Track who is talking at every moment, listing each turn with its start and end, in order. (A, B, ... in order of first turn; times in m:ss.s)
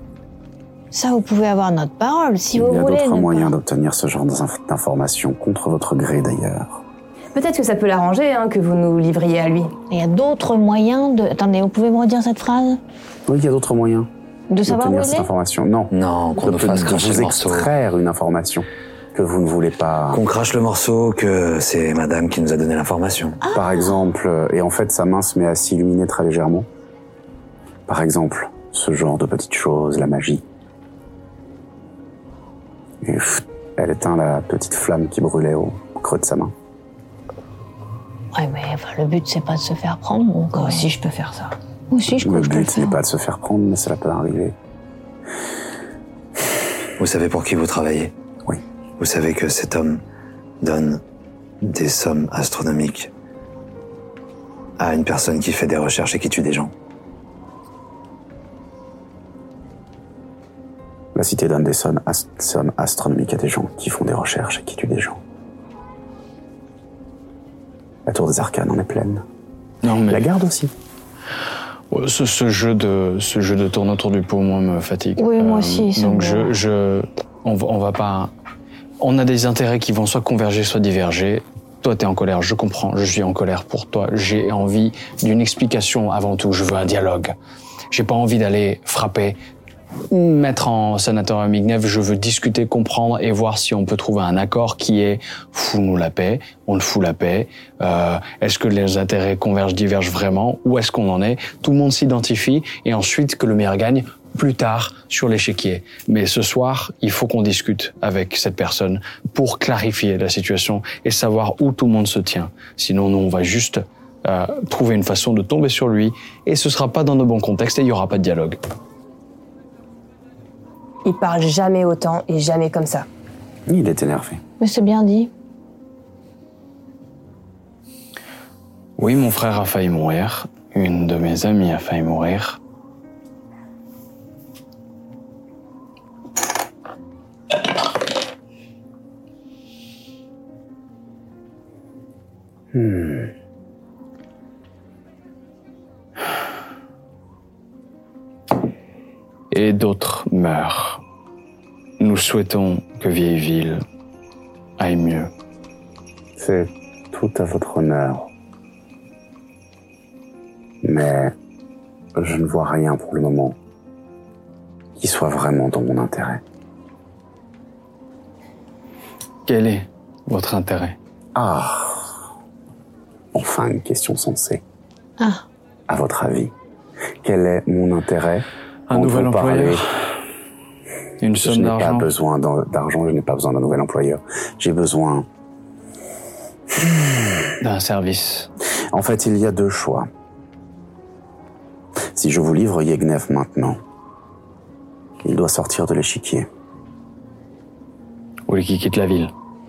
0:00.9-0:03.6 A
0:02.5-0:06.8 B
0:07.3-0:09.8 C
0:09.9-0:12.8 A
0:13.3-0:14.1 B
0:14.5-0:15.3 A
0:14.7-0:20.2 B
0:15.9-0:17.7 D
0:20.1-0:23.4 D
0:23.4-0:24.0 A
0:23.5-0:26.7 B
0:27.9-0:30.4 B
0:33.0-0:36.5 B
0:38.3-0:40.9 A
0:40.5-0:41.6 C
0:41.9-0:43.0 A
0:42.1-0:44.6 B
0:47.0-0:48.1 D
0:49.0-0:50.0 D
0:50.6-0:51.0 D
0:51.6-0:53.1 D
0:54.8-0:56.7 D
1:01.2-1:05.2 B
1:08.1-1:09.2 B
1:09.8-1:10.3 E
1:10.1-1:10.7 B
1:11.9-1:18.3 E
1:15.2-1:16.6 A
1:19.0-1:27.3 E
1:27.9-1:29.4 E
1:30.1-1:58.6 E
2:01.0-2:03.1 C
2:03.7-2:04.4 B
2:04.6-2:05.3 A
2:09.0-2:12.6 E
2:22.7-2:23.3 B
2:29.5-2:31.0 E
2:32.0-2:33.8 E
2:34.8-2:35.3 E
2:36.4-2:38.3 B
2:40.8-2:41.3 B
2:42.2-2:43.6 B
2:45.0-2:46.4 B
2:49.5-2:51.0 E
2:51.4-2:52.1 B
2:53.3-2:54.6 B
2:55.2-2:55.4 A
2:55.9-2:56.5 B
2:57.2-2:59.9 B
2:58.9-2:59.9 E
3:01.2-3:02.1 E
3:01.4-3:05.3 B
3:07.6-3:08.5 E
3:08.9-3:10.1 B
3:12.1-3:13.8 B
3:15.2-3:16.5 B
3:18.5-3:19.3 E